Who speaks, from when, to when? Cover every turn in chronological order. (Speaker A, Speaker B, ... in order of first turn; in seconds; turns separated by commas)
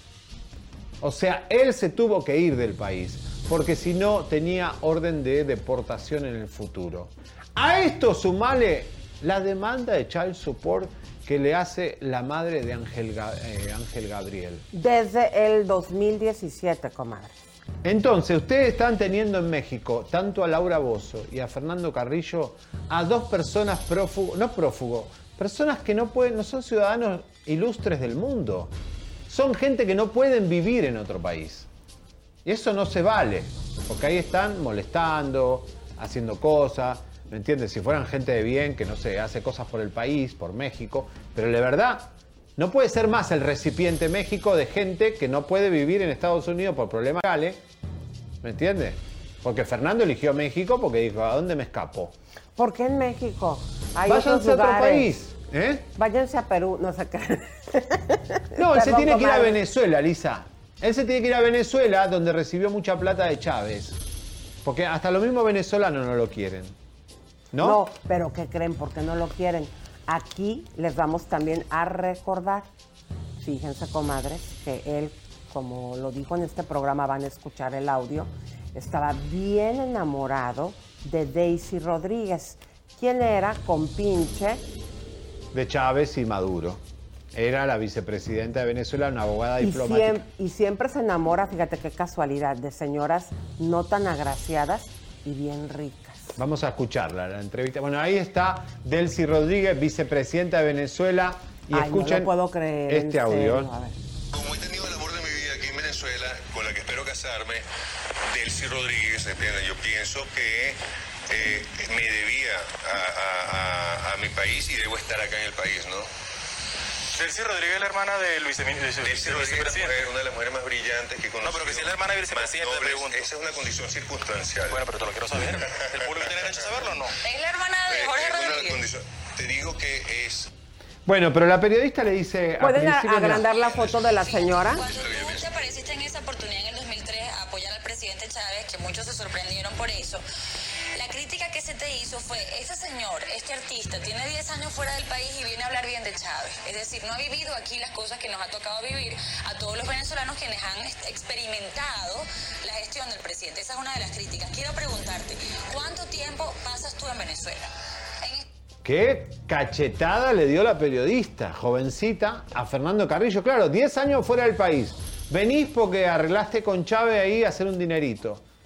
Speaker A: 1.0-14.7, Speaker B: 14.7-17.4, Speaker A: 17.8-28.7, Speaker A: 29.3-31.7, Speaker A: 32.4-47.6, Speaker A: 48.4-52.1, Speaker B: 52.5-55.1, Speaker A: 54.1-55.9, Speaker B: 56.0-59.5, Speaker A: 58.5-64.0, Speaker A: 64.6-66.8, Speaker A: 67.5-67.8, Speaker B: 67.6-72.7, Speaker B: 73.4-84.6, Speaker A: 85.5-86.8, Speaker A: 87.3-90.2, Speaker B: 89.6-96.3, Speaker A: 96.3-102.3, Speaker B: 101.7-103.9, Speaker A: 102.9-103.7, Speaker C: 104.3-107.6, Speaker C: 108.3-116.1, Speaker D: 117.2-120.0, Speaker C: 119.0-126.8, Speaker D: 121.4-123.3, Speaker D: 124.7-127.1, Speaker E: 127.2-128.8, Speaker C: 127.9-130.5, Speaker A: 131.1-133.5, Speaker B: 132.6-134.8, Speaker E: 134.2-140.2, Speaker C: 134.8-135.5, Speaker E: 140.9-157.7, Speaker E: 158.2-158.4, Speaker A: 158.8-168.4